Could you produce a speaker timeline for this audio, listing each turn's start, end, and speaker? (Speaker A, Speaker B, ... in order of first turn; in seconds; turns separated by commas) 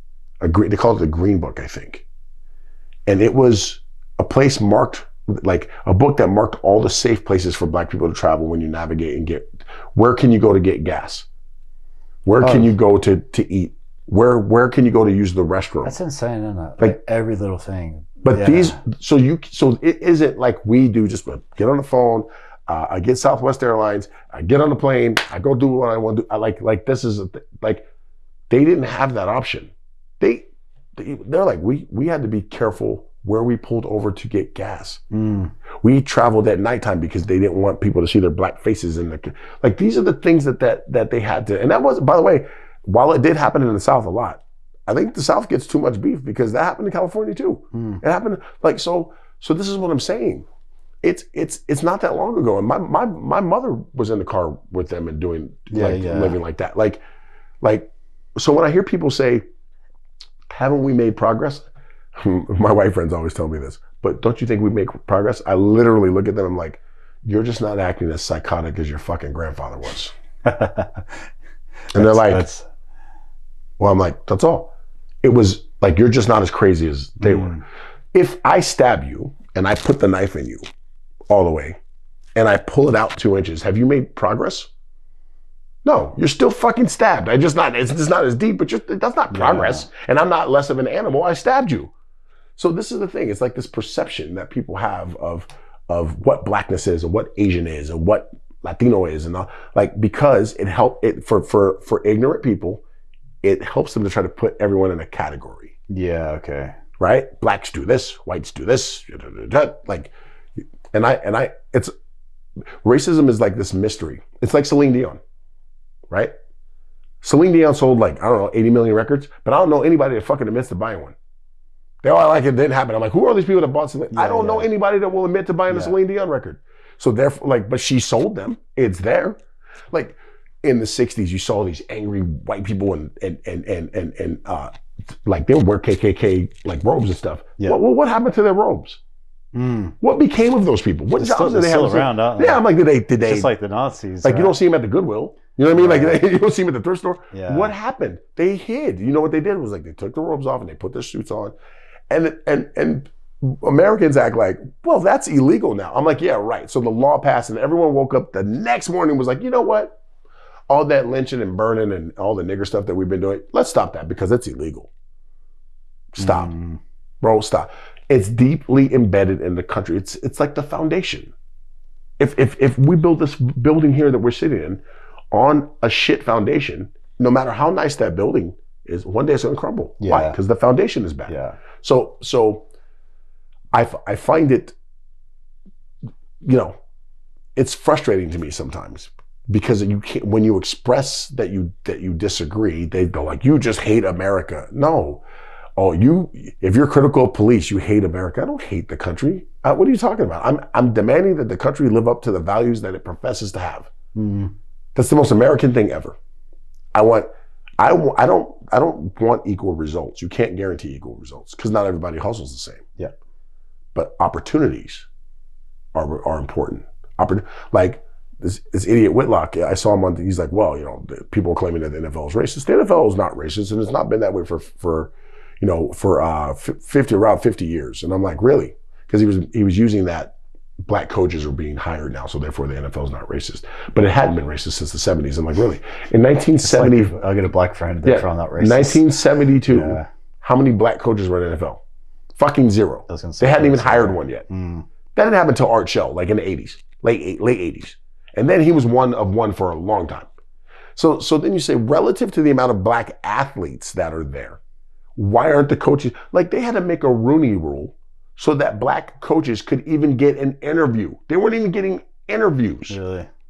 Speaker A: 0.4-2.0, Speaker A: 3.1-11.3, Speaker A: 12.2-15.9, Speaker B: 12.4-12.7, Speaker B: 15.8-18.8, Speaker A: 18.2-27.9, Speaker A: 28.5-35.0, Speaker B: 35.1-35.5, Speaker A: 35.8-50.5, Speaker B: 47.7-48.0, Speaker A: 51.0-57.0, Speaker B: 55.7-56.4, Speaker A: 57.6-59.4, Speaker A: 60.5-70.1, Speaker B: 70.5-71.1, Speaker B: 71.9-72.7, Speaker A: 71.9-72.5, Speaker A: 73.8-74.7, Speaker A: 75.2-77.6, Speaker B: 77.2-77.6, Speaker A: 78.1-80.6, Speaker A: 81.3-81.8, Speaker A: 82.4-84.7, Speaker A: 85.8-91.9, Speaker B: 89.3-89.9, Speaker A: 92.6-102.8, Speaker A: 103.4-105.7, Speaker B: 105.9-106.8, Speaker A: 107.0-110.1, Speaker A: 110.9-111.9, Speaker A: 112.8-115.2, Speaker A: 117.2-121.2, Speaker A: 122.0-129.4, Speaker B: 124.1-124.7, Speaker B: 125.7-126.0, Speaker A: 129.9-134.7, Speaker A: 135.2-139.0, Speaker B: 139.5-139.9, Speaker A: 140.0-143.5, Speaker B: 141.2-142.6, Speaker B: 143.2-144.6, Speaker A: 144.2-151.5, Speaker B: 145.7-146.2, Speaker B: 147.3-147.7, Speaker A: 152.1-159.9, Speaker A: 160.7-164.9, Speaker A: 166.1-166.5, Speaker B: 166.2-166.8, Speaker A: 167.2-171.3, Speaker A: 172.2-182.7, Speaker B: 180.0-180.4, Speaker B: 181.3-181.6, Speaker A: 183.7-184.7, Speaker A: 186.4-186.8, Speaker A: 187.6-195.2, Speaker A: 195.8-203.9, Speaker B: 204.1-204.5, Speaker A: 204.9-206.2, Speaker A: 206.9-207.3, Speaker A: 207.8-212.8, Speaker A: 213.9-215.1, Speaker A: 215.9-230.3, Speaker A: 230.8-237.1, Speaker B: 236.6-239.0, Speaker A: 238.0-241.8, Speaker B: 239.6-240.1, Speaker A: 242.3-244.4, Speaker B: 243.1-244.8, Speaker A: 245.1-250.3, Speaker A: 250.9-254.6, Speaker A: 255.2-263.0, Speaker B: 262.9-263.3